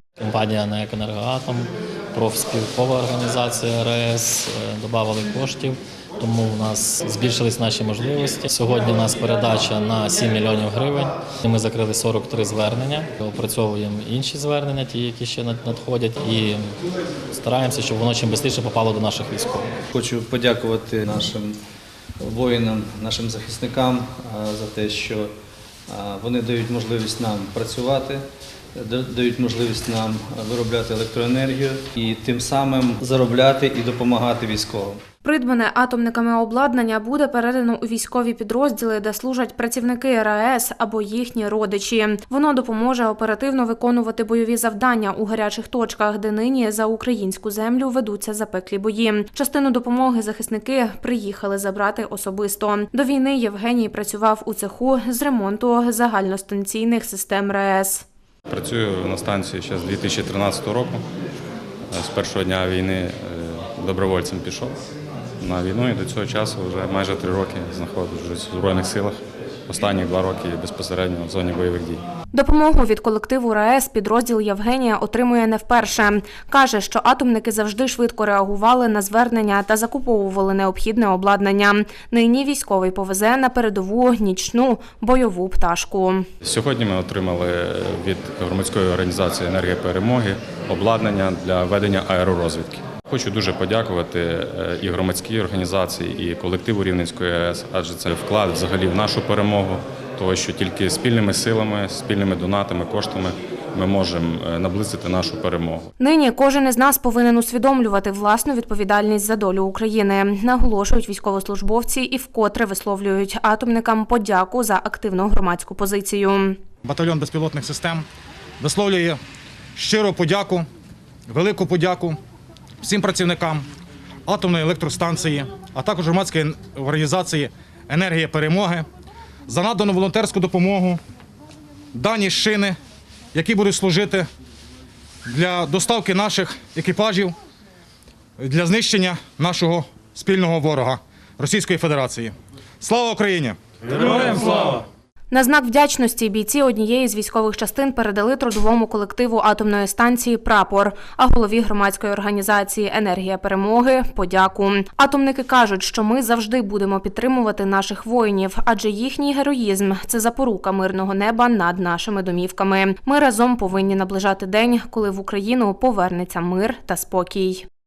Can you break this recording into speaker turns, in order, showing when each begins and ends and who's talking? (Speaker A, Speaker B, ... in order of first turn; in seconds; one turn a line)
Speaker A: 0.2-16.6
Speaker A: 17.3-19.7
Speaker B: 19.9-21.5
Speaker B: 22.2-25.3
Speaker B: 25.9-28.2
Speaker B: 28.8-35.0
Speaker C: 35.2-58.0
Speaker D: 58.5-61.0
Speaker D: 61.9-64.8
Speaker D: 65.4-69.2
Speaker D: 69.7-72.0
Speaker C: 72.3-86.3
Speaker D: 86.4-105.9
Speaker C: 106.0-116.6
Speaker E: 116.8-118.0
Speaker E: 118.6-119.2
Speaker E: 119.8-120.7
Speaker E: 121.3-122.2
Speaker E: 122.8-123.7
Speaker E: 124.3-128.9
Speaker E: 129.5-131.0
Speaker E: 131.9-132.8
Speaker E: 133.3-134.3
Speaker E: 135.3-137.3
Speaker E: 138.4-144.8
Speaker C: 145.3-167.7